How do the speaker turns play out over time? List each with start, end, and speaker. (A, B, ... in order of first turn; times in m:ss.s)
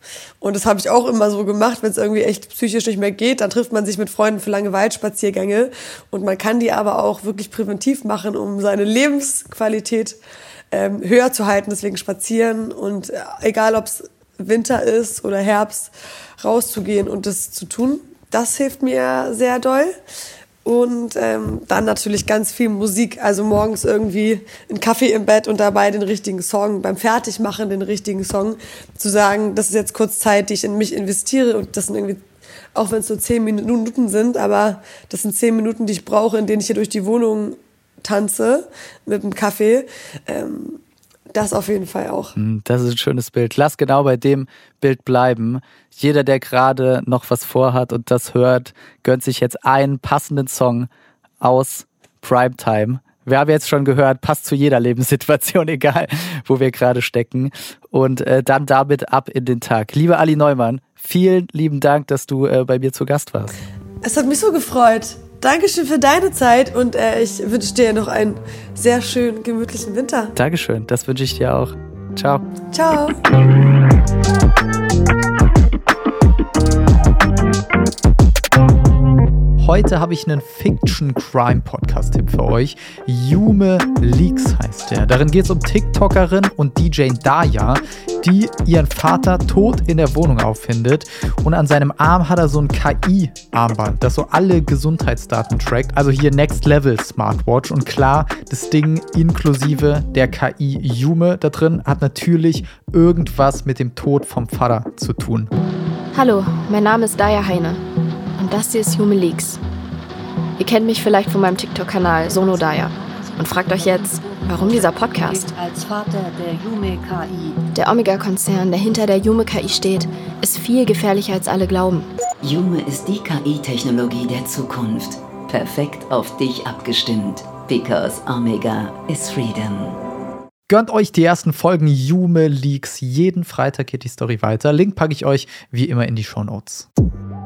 0:00.4-0:10.2 A
0:10.7-0:20.0 A
0:20.6-0:32.2 A
0:32.8-0:40.8 A
0:41.3-0:42.3 A
0:42.4-0:50.9 B
0:51.4-1:03.5 B
1:04.0-1:10.3 A
1:10.4-1:12.4 B
1:12.7-1:13.2 A
1:19.6-1:45.5 B
1:46.1-1:47.8 C
1:48.4-1:49.6 C
1:50.6-1:55.5 C
1:52.0-1:57.6 D
1:57.8-2:02.1 C
2:02.4-2:10.0 E
2:10.7-2:16.9 B